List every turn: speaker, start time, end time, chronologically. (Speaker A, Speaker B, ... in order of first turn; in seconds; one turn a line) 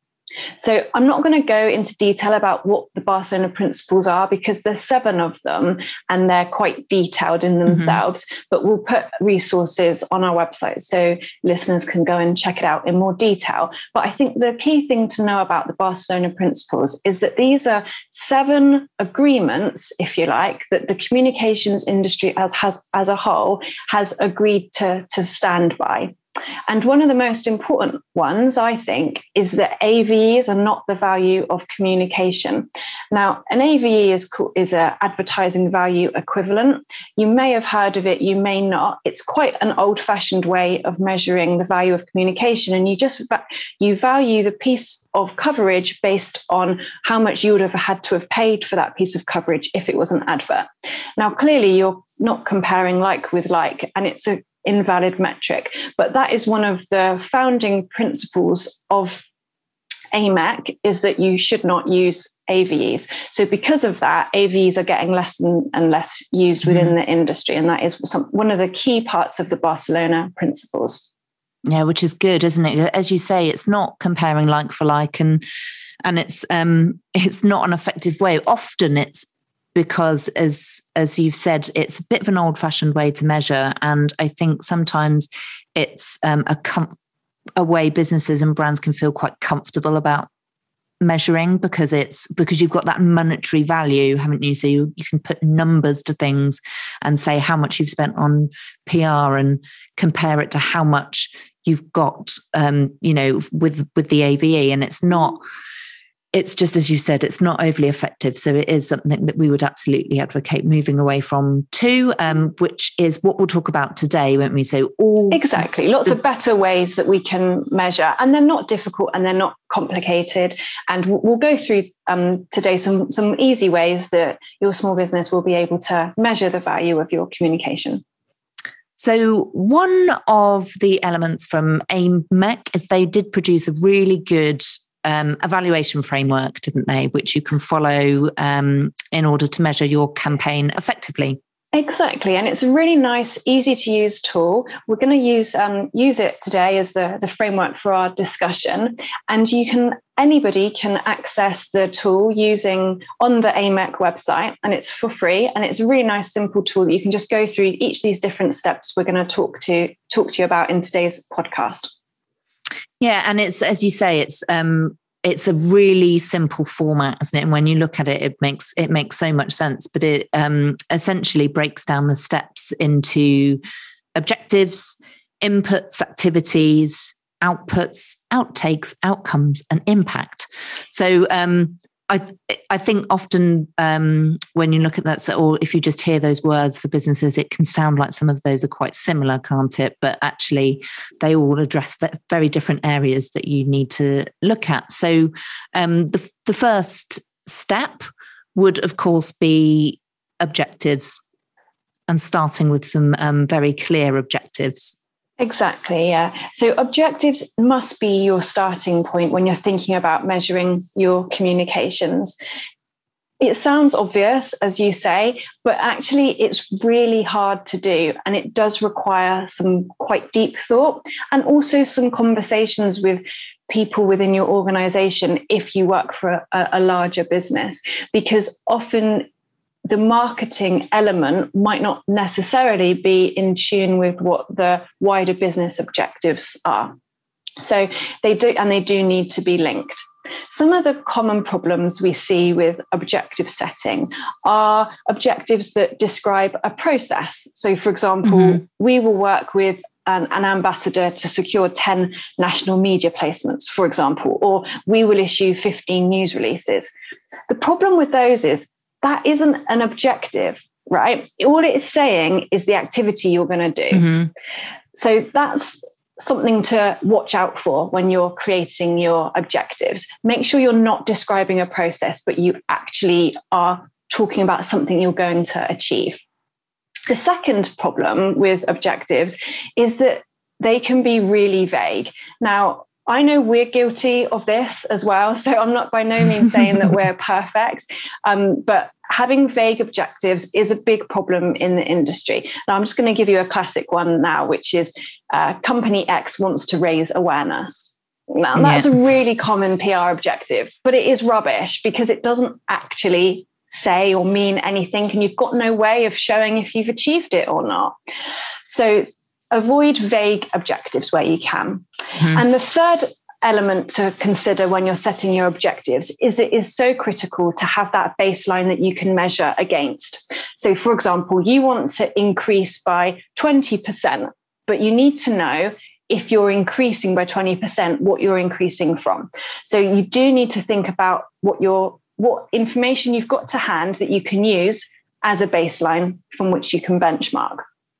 Speaker A: 0.6-26.1
Speaker B: 7.7-8.0
Speaker A: 26.7-59.2
Speaker A: 60.1-71.0
Speaker B: 66.7-66.9
Speaker B: 71.7-75.4
Speaker B: 76.0-87.0
Speaker B: 87.5-90.3
Speaker B: 91.0-105.4
Speaker B: 106.3-115.5
Speaker A: 115.3-128.0
Speaker B: 129.0-141.4
Speaker A: 141.7-161.9
Speaker B: 163.0-173.6
Speaker B: 174.2-201.2
Speaker B: 202.1-204.9
Speaker A: 205.4-212.3
Speaker A: 213.4-229.3
Speaker A: 229.9-236.9
Speaker A: 237.6-256.9
Speaker B: 248.2-248.6
Speaker A: 257.5-264.1
Speaker B: 263.9-264.3
Speaker A: 264.9-276.2
Speaker A: 277.1-307.9
Speaker B: 298.5-298.9
Speaker A: 308.6-337.6